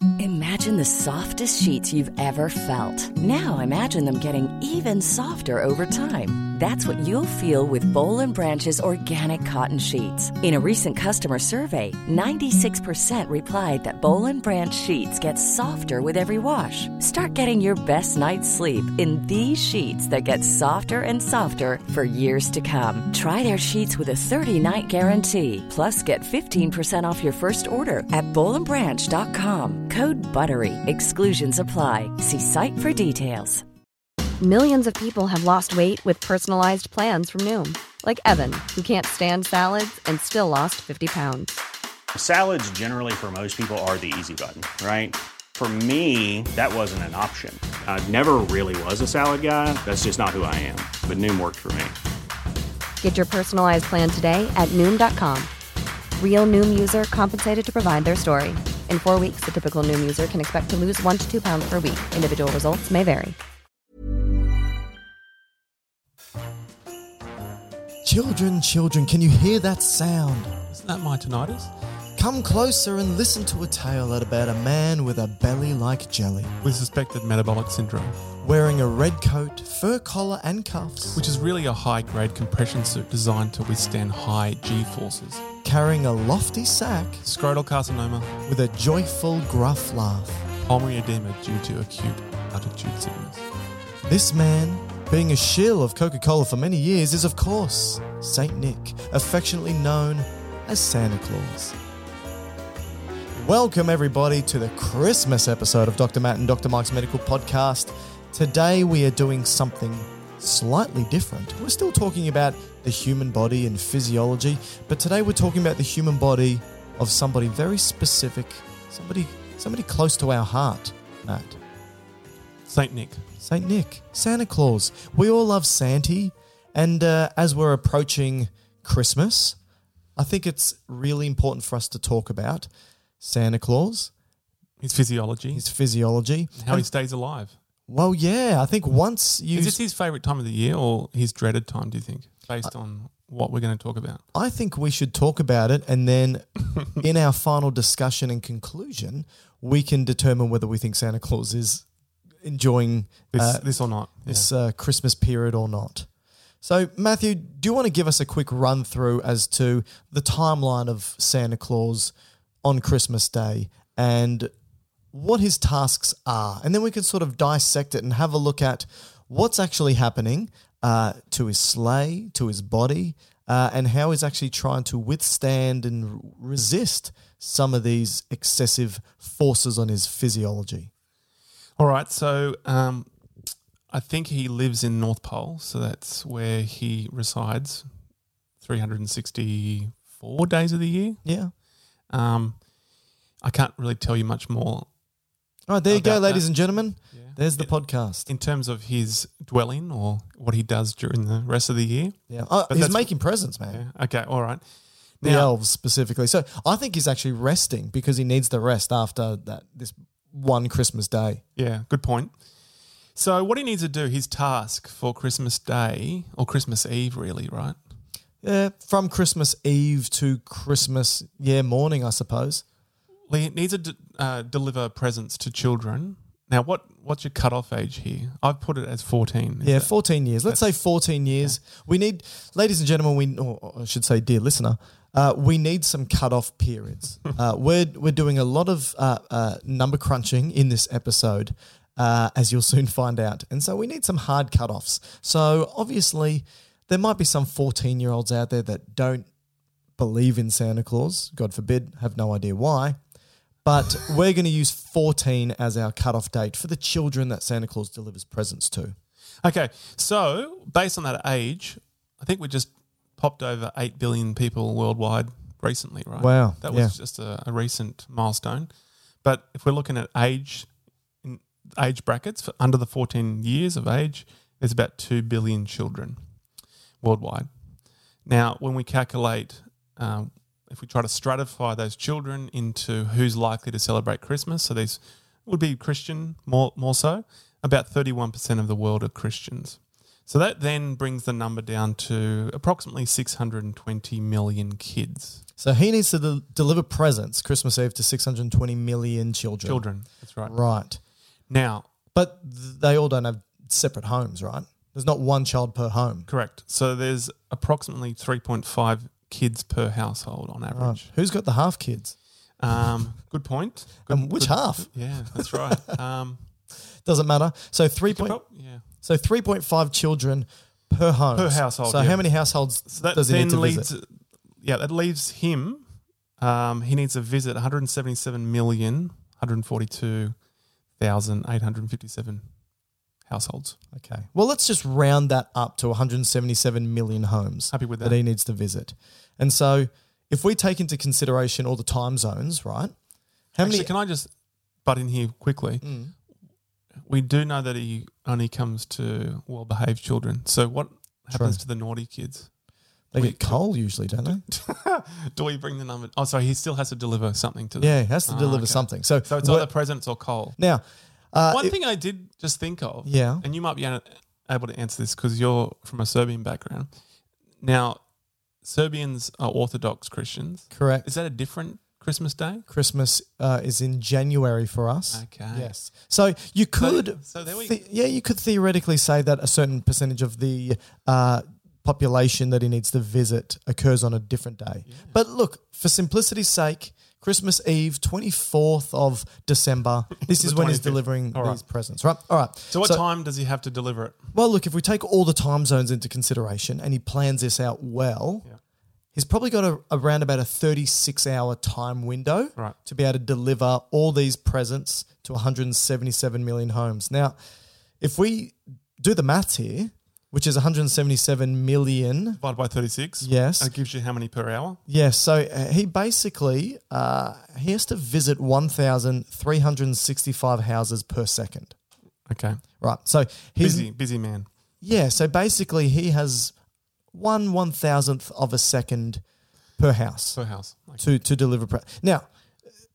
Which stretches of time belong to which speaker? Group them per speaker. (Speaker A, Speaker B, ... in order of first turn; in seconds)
Speaker A: 0.2-33.6
Speaker B: 34.4-41.6, 53.0-55.5, 56.2-63.4
Speaker C: 42.1-51.9
Speaker D: 68.0-70.5, 72.2-76.5, 78.4-81.2, 85.6-87.2, 88.5-90.5, 94.0-101.8, 103.4-121.6, 123.4-129.6, 130.2-132.7, 133.2-134.1, 135.5-136.9, 137.9-139.8, 144.3-151.8, 152.4-156.1, 156.6-162.1, 162.6-164.5, 165.1-180.9, 191.2-191.5, 195.7-198.3, 202.3-203.8, 205.2-211.4, 218.4-222.6, 229.6-249.3, 250.0-253.0, 253.6-258.9, 266.2-266.9, 295.6-299.9, 300.4-301.0, 302.1-306.3, 310.7-312.1, 314.1-315.6, 317.0-323.9, 333.9-342.9, 343.6-343.9, 345.8-346.1, 351.3-351.6, 353.1-354.4, 357.8-359.7, 360.6-361.8, 363.1-363.4, 370.7-371.1, 372.7-393.0, 394.3-398.5, 399.1-407.4, 408.0-412.4, 413.2-413.7, 414.9-421.8, 422.8-423.9, 424.8-426.6, 427.1-429.2, 429.8-430.4, 431.0-432.2
Speaker E: 70.7-71.7, 76.6-78.2, 81.2-85.4, 87.2-88.3, 90.6-93.5, 122.7-123.2, 134.8-135.6, 136.5-137.6, 139.5-144.2, 153.3-154.5, 181.8-183.1, 183.9-187.9, 188.6-191.2, 192.1-192.6, 193.4-194.9, 195.9-197.7, 198.2-203.1, 203.7-204.6, 205.2-205.5, 211.6-212.3, 213.1-217.8, 223.3-229.9, 259.4-268.7, 269.2-270.7, 271.2-276.2, 277.0-277.5, 278.2-295.4, 299.6-300.6, 301.5-301.9, 306.3-311.1, 312.6-316.4, 318.1-318.8, 321.3-322.2, 322.9-325.8, 326.4-330.3, 331.0-332.4, 333.2-333.8, 337.7-338.2, 343.6-344.3, 344.8-345.8, 347.0-352.5, 353.1-353.6, 354.4-360.6, 361.5-366.9, 367.6-368.0, 368.6-372.6, 375.1-375.7, 376.8-377.8, 384.9-385.1, 390.2-391.6, 392.7-394.2, 412.4-414.8, 422.3-422.6, 423.6-424.5, 430.4-431.0